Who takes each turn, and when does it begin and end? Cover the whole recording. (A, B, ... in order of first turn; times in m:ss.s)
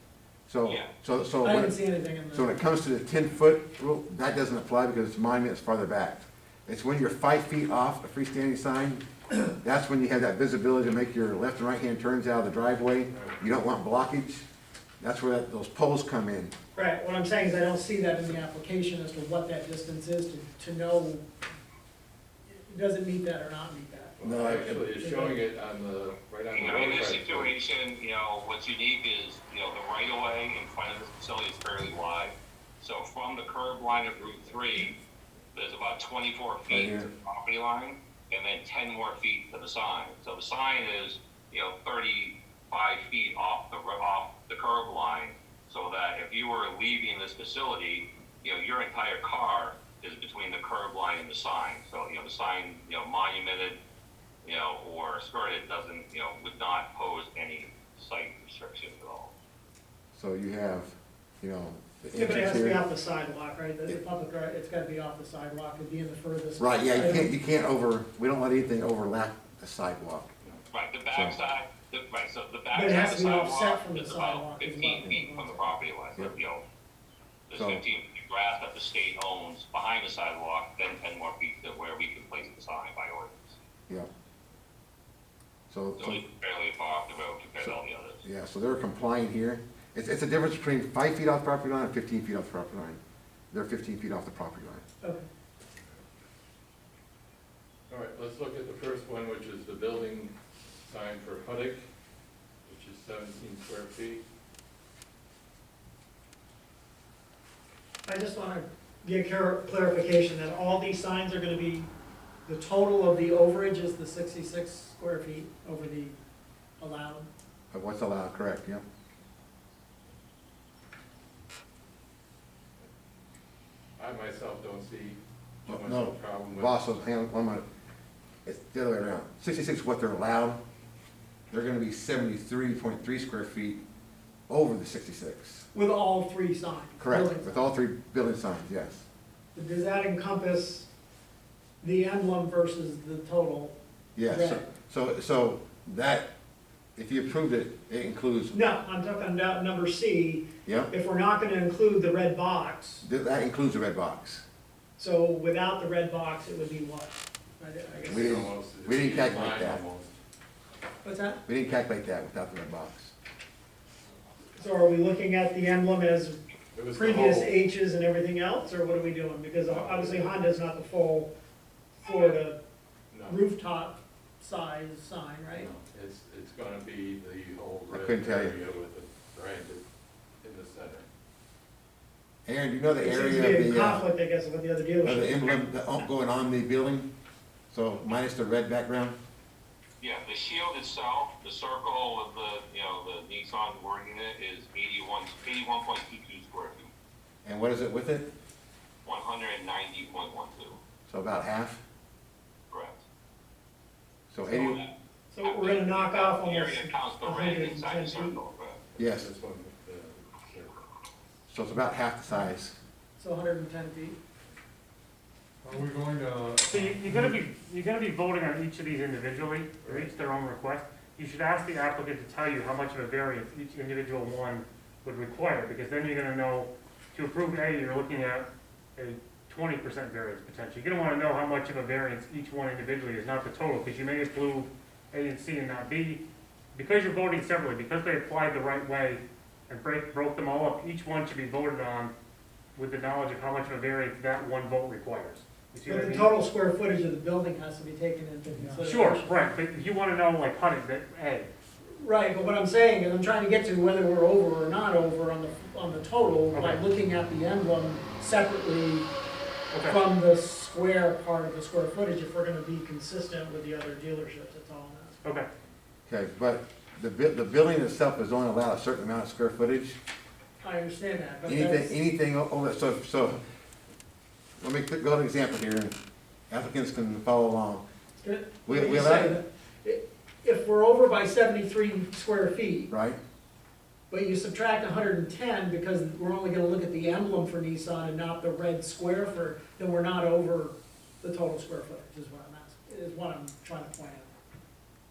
0:00.5-0:01.7 A
0:00.6-0:00.9 B
0:01.4-0:02.6 C
0:02.3-0:14.4 A
0:15.0-0:16.5 A
0:16.8-0:21.2 C
0:22.5-0:25.4 C
0:24.2-0:27.5 D
0:24.2-0:24.8 A
0:26.5-0:35.0 B
0:35.5-0:53.8 B
0:36.7-0:37.1 A
0:54.4-0:59.3 B
1:00.1-1:02.8 A
1:02.2-1:07.3 C
1:06.6-1:10.3 A
1:10.7-1:16.6 B
1:12.7-1:15.8 C
1:17.5-1:23.6 B
1:17.5-1:17.8 A
1:25.7-1:26.2 A
1:26.0-1:28.2 B
1:27.6-1:33.0 A
1:33.5-1:34.8 A
1:37.9-1:40.3 D
1:40.9-1:41.8 D
1:42.7-1:44.2 D
1:48.1-1:51.9 C
1:52.5-1:56.2 C
1:56.8-1:57.3 C
1:57.7-1:58.8 A
2:04.0-2:06.7 D
2:05.7-2:07.6 A
2:08.4-2:10.6 A
2:11.5-2:13.8 A
2:14.5-2:15.7 A
2:15.7-2:17.6 C
2:17.0-2:19.1 A
2:19.6-2:20.9 C
2:21.8-2:24.7 C
2:24.2-2:26.3 A
2:27.0-2:28.6 A
2:28.5-2:33.0 C
2:30.7-2:30.9 A
2:33.0-2:34.4 A
2:35.0-2:38.3 C
2:38.1-2:39.8 A
2:38.1-2:40.1 D
2:41.0-2:41.4 C
2:41.5-2:43.1 A
2:44.6-2:46.4 C
2:46.8-2:47.5 D
2:46.9-2:51.3 C
2:49.8-2:50.2 E
2:52.0-2:52.6 C
2:53.1-2:53.4 D
2:53.3-2:55.7 C
2:55.6-2:59.8 D
2:57.9-2:58.6 A
3:00.4-3:01.0 D
3:02.5-3:04.0 A
3:03.0-3:05.6 C
3:05.0-3:07.1 A
3:07.7-3:09.2 A
3:10.0-3:16.9 B
3:17.4-3:18.3 A
3:19.0-3:20.8 B
3:21.1-3:21.8 A
3:22.7-3:23.0 B
3:24.3-3:24.8 A
3:24.5-3:24.9 B
3:25.3-3:28.4 C
3:25.4-3:28.8 B
3:29.0-3:29.3 A
3:29.0-3:29.8 E
3:29.1-3:30.7 D
3:31.5-3:32.8 A
3:33.2-3:34.2 C
3:35.8-3:36.8 E
3:36.7-3:56.2 F
3:56.8-4:02.1 F
4:02.8-4:06.3 F
4:05.9-4:09.4 C
4:08.6-4:11.5 F
4:11.9-4:19.1 C
4:16.5-4:16.8 F
4:19.7-4:20.0 F
4:19.9-4:25.2 C
4:25.2-4:25.5 F
4:26.1-4:30.0 A
4:30.6-4:31.9 C
4:31.4-4:33.4 A
4:34.6-4:36.0 A
4:36.5-4:37.8 A
4:38.2-4:42.9 C
4:38.6-4:39.4 A
4:42.9-4:43.2 A
4:44.1-4:54.3 C